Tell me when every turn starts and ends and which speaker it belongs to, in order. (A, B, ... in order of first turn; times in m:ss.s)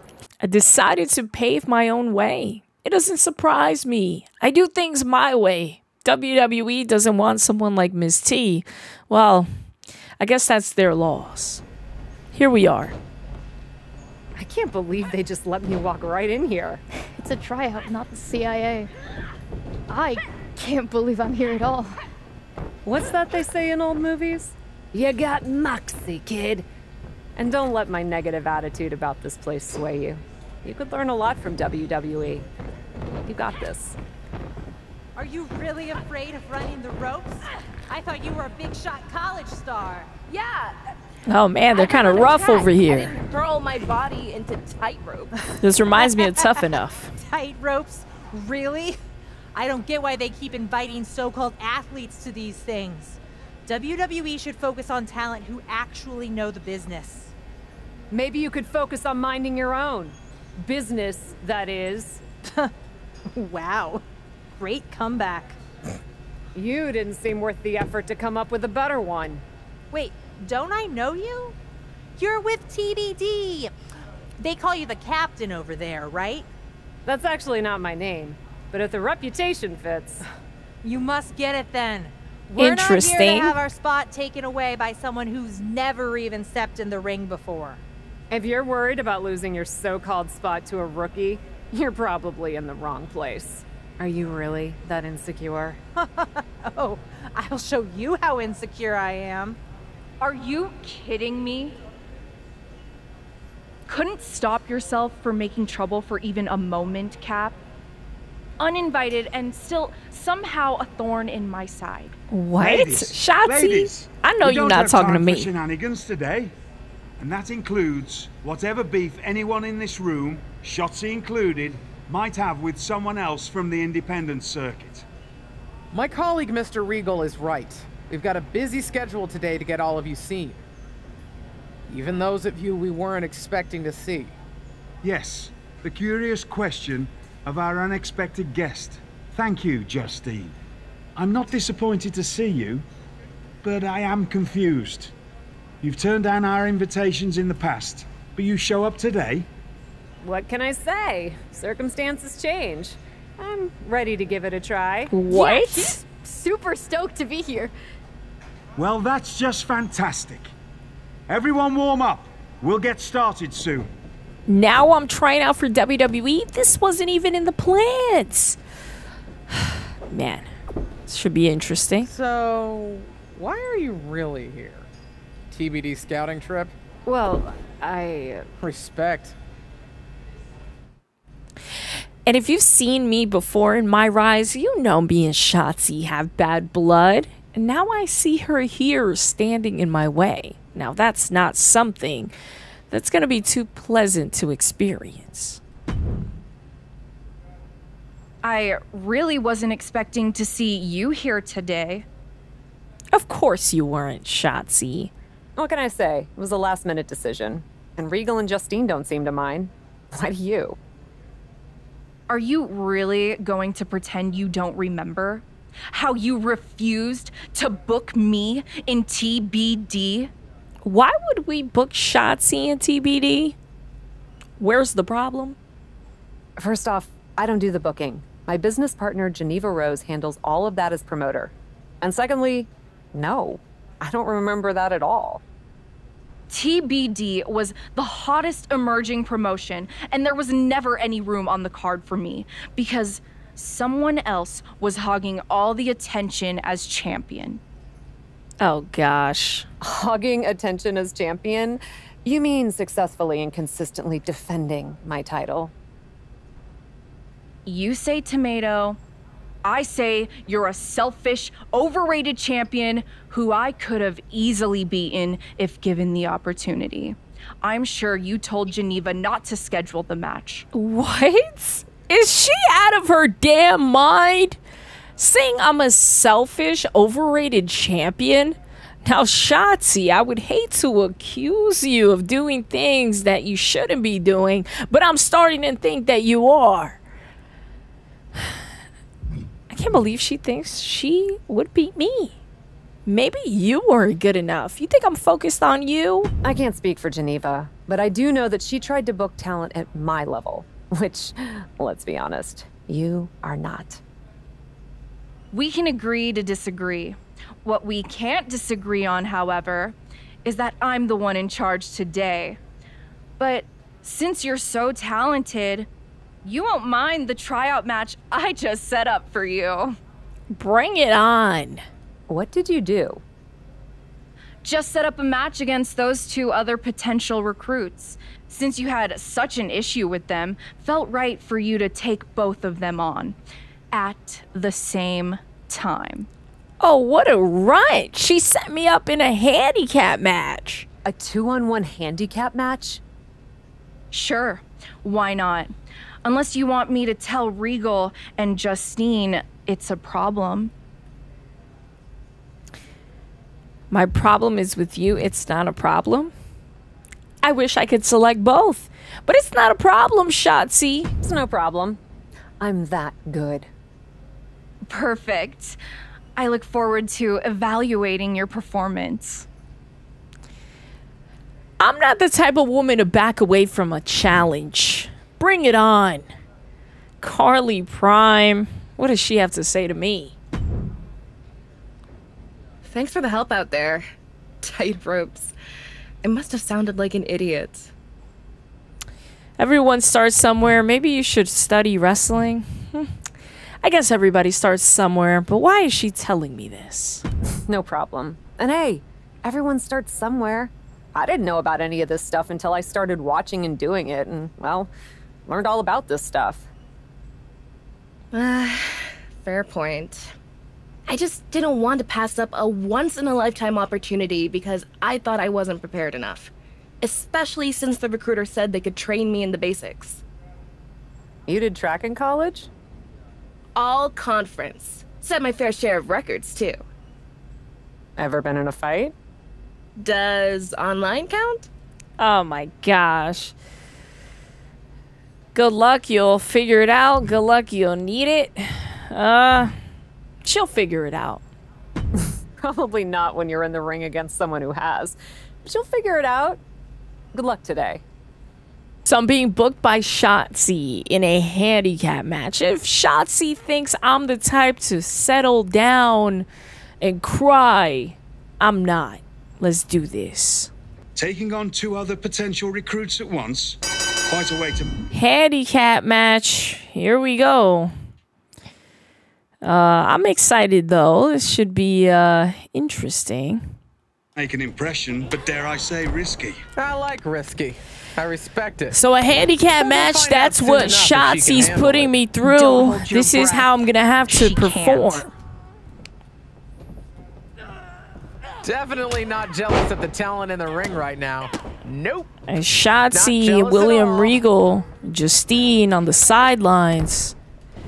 0:00.4-0:09.5 A
0:10.2-0:11.6 A
0:12.3-0:12.9 A
0:14.4-0:16.8 B
0:17.2-0:18.9 C
0:19.9-0:21.9 C
0:22.8-0:26.6 B
0:27.4-0:32.4 B
0:33.2-0:34.0 B
0:35.1-0:40.1 D
0:40.3-0:40.8 E
0:41.3-0:43.1 A
0:41.7-0:45.3 E
0:45.6-0:47.1 A
0:46.0-0:46.6 D
0:47.2-0:49.0 D
0:49.5-0:57.3 D
0:58.1-1:02.2 B
1:03.3-1:04.0 D
1:04.6-1:05.6 D
1:06.5-1:09.4 B
1:09.9-1:11.6 D
1:12.2-1:13.7 D
1:14.4-1:16.5 D
1:17.0-1:20.2 B
1:20.8-1:27.8 D
1:22.6-1:23.6 A
1:28.3-1:35.8 B
1:36.0-1:39.6 D
1:40.2-1:41.8 F
1:43.9-1:47.6 F
1:48.6-1:52.2 F
1:52.3-1:55.5 A
1:52.6-1:56.5 G
1:57.2-2:05.0 G
2:05.9-2:10.6 H
2:11.9-2:14.3 H
2:15.0-2:20.5 G
2:21.2-2:22.8 G
2:23.6-2:25.1 G
2:25.8-2:29.5 G
2:30.2-2:35.1 B
2:35.1-2:36.0 A
2:35.3-2:37.7 C
2:38.8-2:40.5 G
2:41.3-2:43.9 G
2:44.5-2:48.6 A
2:49.5-2:50.4 A
2:51.1-2:52.1 A
2:52.0-2:54.9 H
2:55.5-2:56.7 H
2:57.0-2:58.5 B
2:58.6-2:59.3 H
3:02.2-3:12.3 A
3:12.9-3:15.6 A
3:18.4-3:22.0 F
3:23.1-3:25.1 A
3:25.6-3:30.8 B
3:32.3-3:40.3 F
3:40.8-3:43.6 A
3:44.6-3:45.6 A
3:46.6-3:55.4 B
3:56.5-4:07.6 F
4:08.6-4:09.7 A
4:09.8-4:15.7 B
4:17.6-4:19.0 F
4:19.6-4:30.6 F
4:30.7-4:34.6 A
4:35.2-4:47.0 A
4:49.7-4:52.3 A
4:53.0-4:56.3 A
4:56.4-5:04.0 B
5:05.5-5:12.6 F
5:13.4-5:15.9 F
5:16.4-5:20.0 F
5:20.5-5:21.8 A
5:22.3-5:23.2 B
5:24.6-5:33.4 F
5:33.9-5:36.3 F
5:36.8-5:40.9 A
5:41.0-5:43.0 B
5:44.1-5:45.7 F
5:46.2-5:50.7 F
5:53.9-5:56.3 A
5:57.4-6:01.1 A
6:01.2-6:02.0 B
6:02.6-6:03.7 B
6:04.9-6:05.8 F
6:06.4-6:09.5 F
6:11.8-6:16.3 A
6:17.2-6:20.4 A
6:22.8-6:24.1 I
6:24.6-6:25.5 I
6:26.2-6:27.9 I
6:29.6-6:33.1 A
6:33.8-6:37.2 A
6:37.6-6:44.9 B
6:45.4-6:46.7 B
6:48.3-6:50.3 I
6:51.1-7:00.2 I
7:01.5-7:02.7 B
7:03.7-7:06.8 I
7:08.2-7:09.1 B
7:10.0-7:11.7 I
7:12.2-7:13.5 A
7:15.5-7:19.7 A
7:20.4-7:21.4 A
7:22.1-7:26.6 B
7:27.3-7:28.0 B
7:29.0-7:36.5 A
7:37.0-7:40.7 A
7:41.2-7:44.9 G
7:45.1-7:47.9 A
7:49.6-7:53.7 A
7:54.4-7:56.6 G
7:56.8-7:59.0 H
7:58.9-8:05.3 A
7:59.7-8:02.2 H
8:02.4-8:03.7 F
8:02.8-8:03.4 G
8:04.3-8:05.3 F
8:08.6-8:12.3 H
8:12.5-8:17.3 A
8:13.1-8:14.4 H